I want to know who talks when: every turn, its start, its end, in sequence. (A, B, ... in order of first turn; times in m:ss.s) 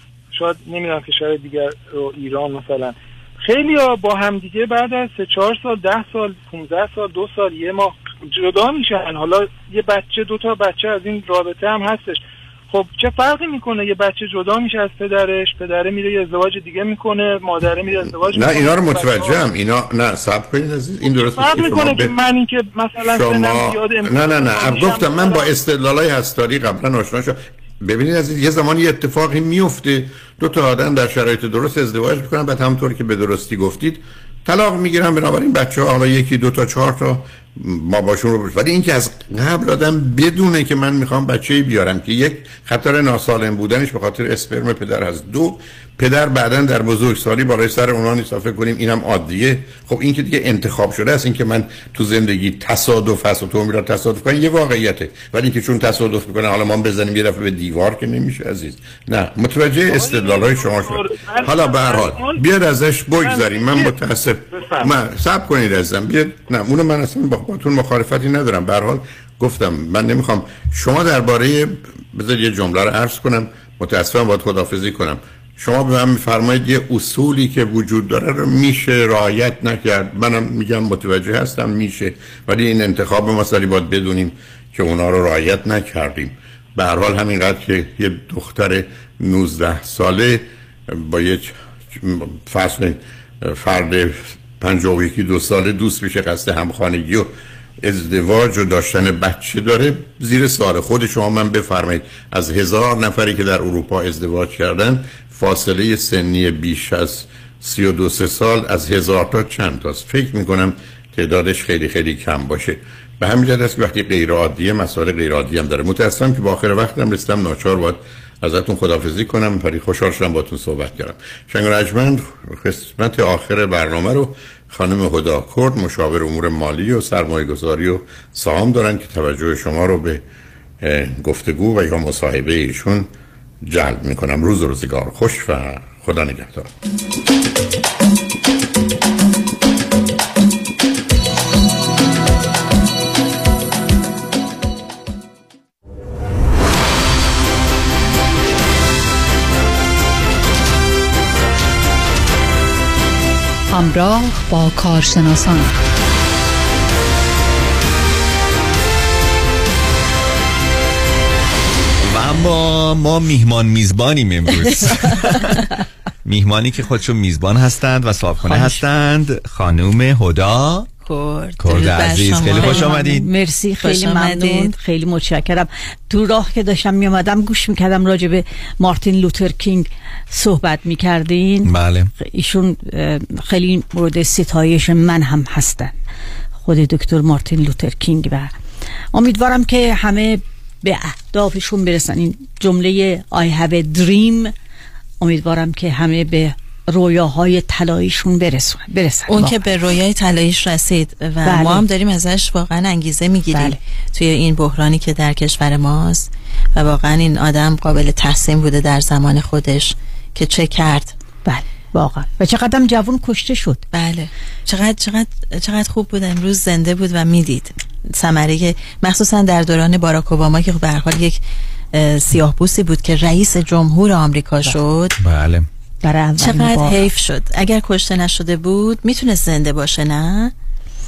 0:00.3-0:19.4 A
0:18.3-0:22.1 B
0:21.1-0:25.5 A
0:23.1-2:10.2 B
0:59.9-1:02.4 A
1:03.2-1:03.9 A
1:04.5-1:04.9 A
2:10.8-2:13.1 B
2:13.6-2:16.7 B
2:33.7-2:35.7 C
2:42.0-2:45.6 D
2:46.2-2:50.9 D
2:48.4-2:48.8 E
2:51.0-2:53.2 F
2:51.6-2:53.3 D
2:52.6-3:05.9 E
2:53.8-2:54.7 F
3:01.6-3:02.1 D
3:06.6-3:08.5 E
3:09.1-3:14.5 E
3:15.2-3:19.6 E
3:19.3-3:31.1 F
3:21.4-3:21.8 E
3:23.5-3:23.8 E
3:31.4-3:33.8 E
3:33.9-3:41.4 F
3:41.9-3:45.1 F
3:45.2-3:45.6 D
3:46.0-3:47.0 E
3:46.4-3:50.5 F